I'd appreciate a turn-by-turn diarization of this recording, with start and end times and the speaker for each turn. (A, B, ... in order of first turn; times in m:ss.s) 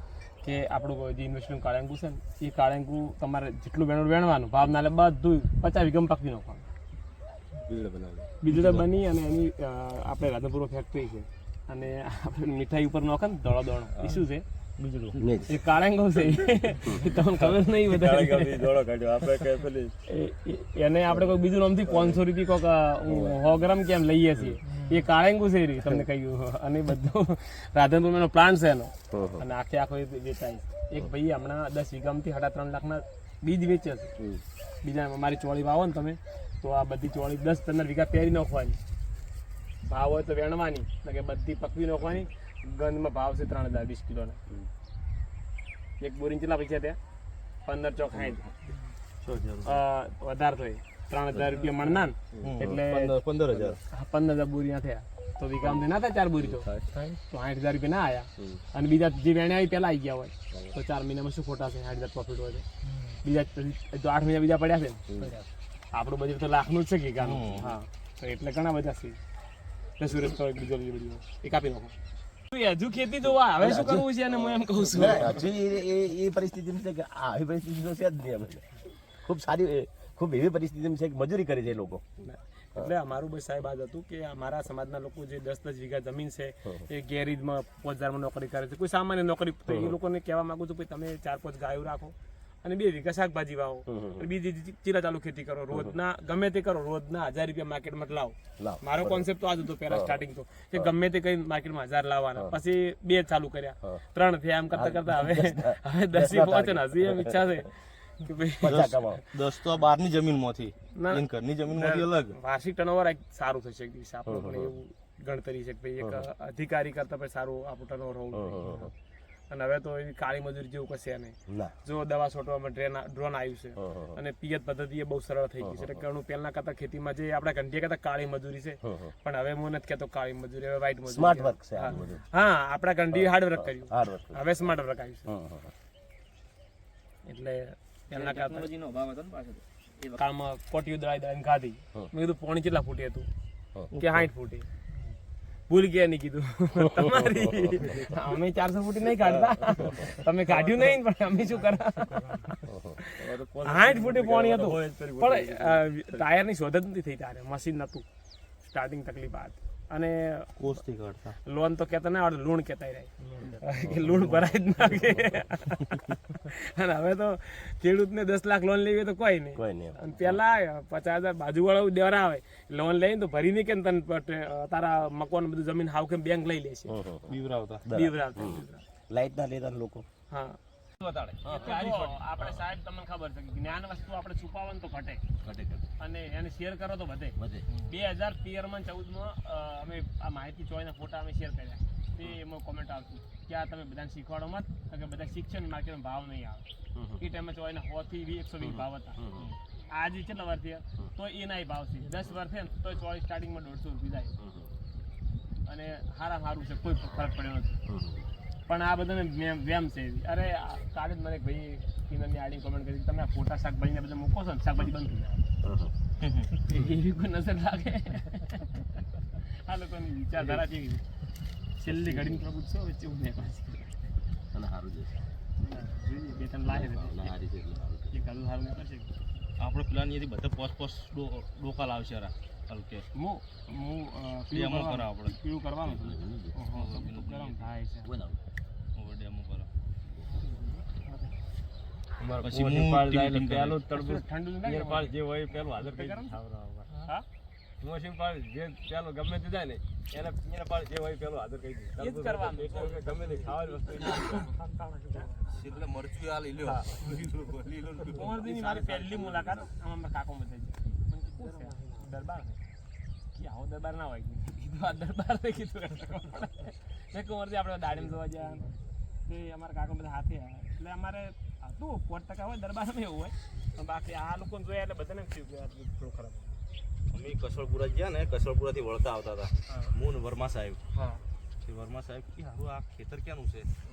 0:00.4-0:06.7 A
0:07.7-0:08.2 B
0:08.4-0:14.4 A
0:14.8-0:15.2 C
0:15.2-0:15.6 D
0:15.5-0:18.7 A
0:17.9-0:19.9 B
0:20.0-0:34.1 A
0:29.1-0:29.4 D
0:34.8-0:38.8 A
0:39.8-0:44.4 A
0:46.0-0:47.0 A
0:47.6-0:48.5 A
0:49.6-0:53.1 A
0:52.4-0:53.8 C
0:53.9-0:56.7 A
0:57.3-1:02.6 A
1:03.2-1:05.0 A
1:05.1-1:05.3 D
1:05.9-1:09.2 A
1:07.2-1:07.8 C
1:10.0-1:12.0 A
1:12.5-1:15.4 A
1:13.6-1:22.2 D
1:22.2-1:48.9 A
1:33.9-1:34.2 D
1:38.6-1:39.2 D
1:39.9-1:40.2 D
1:44.7-1:47.4 D
1:48.6-1:49.2 D
1:48.6-1:52.4 C
1:50.9-1:58.9 A
1:54.3-1:54.7 D
1:58.3-1:58.9 D
1:59.5-2:15.3 A
2:01.5-2:01.7 D
2:03.8-2:04.2 D
2:11.1-2:12.2 D
2:13.2-2:14.4 D
2:15.3-2:15.7 D
2:17.2-2:18.7 A
2:18.1-2:20.2 B
2:20.2-2:23.3 A
2:23.9-2:24.7 A
2:25.7-2:38.0 A
2:30.6-2:30.9 B
2:33.2-2:35.8 B
2:38.6-2:40.5 A
2:40.6-2:41.4 C
2:41.4-2:57.0 A
2:43.3-2:43.6 B
2:49.6-2:50.4 D
2:56.9-3:00.0 D
2:57.3-2:57.8 C
2:57.9-2:58.8 A
3:00.3-3:00.6 A
3:01.0-3:02.5 C
3:01.4-3:05.2 A
3:05.4-3:05.8 D
3:06.0-3:16.6 A
3:07.4-3:07.6 D
3:16.9-3:17.2 D
3:17.2-3:19.2 A
3:18.6-3:19.5 D
3:19.3-3:19.6 C
3:19.9-3:24.3 A
3:24.4-3:24.7 D
3:25.6-3:27.8 A
3:27.9-3:28.3 D
3:28.6-3:35.5 A
3:35.6-3:35.9 D
3:36.2-3:36.5 C
3:36.6-3:41.0 A
3:41.8-3:44.0 A
3:41.8-3:42.4 D
3:44.5-3:45.2 D
3:45.6-3:47.3 A
3:46.6-3:48.2 D
3:48.1-3:49.2 A
3:49.6-3:53.1 C
3:53.1-3:58.1 A
3:54.5-3:55.4 C
3:55.8-3:56.6 D
3:56.7-3:57.7 C
3:58.0-3:58.4 D
3:58.9-3:59.7 C
4:00.4-4:01.4 A
4:02.2-4:07.0 B
4:02.4-4:03.8 C
4:03.9-4:05.1 A
4:05.8-4:06.4 A
4:07.8-4:14.6 B
4:11.9-4:13.1 A
4:13.9-4:15.3 A
4:15.4-4:19.6 C
4:16.6-4:18.7 B
4:18.1-4:22.6 A
4:23.3-4:28.7 A
4:29.2-4:36.6 A
4:37.1-4:40.8 C
4:40.9-4:41.2 A
4:41.6-4:43.7 C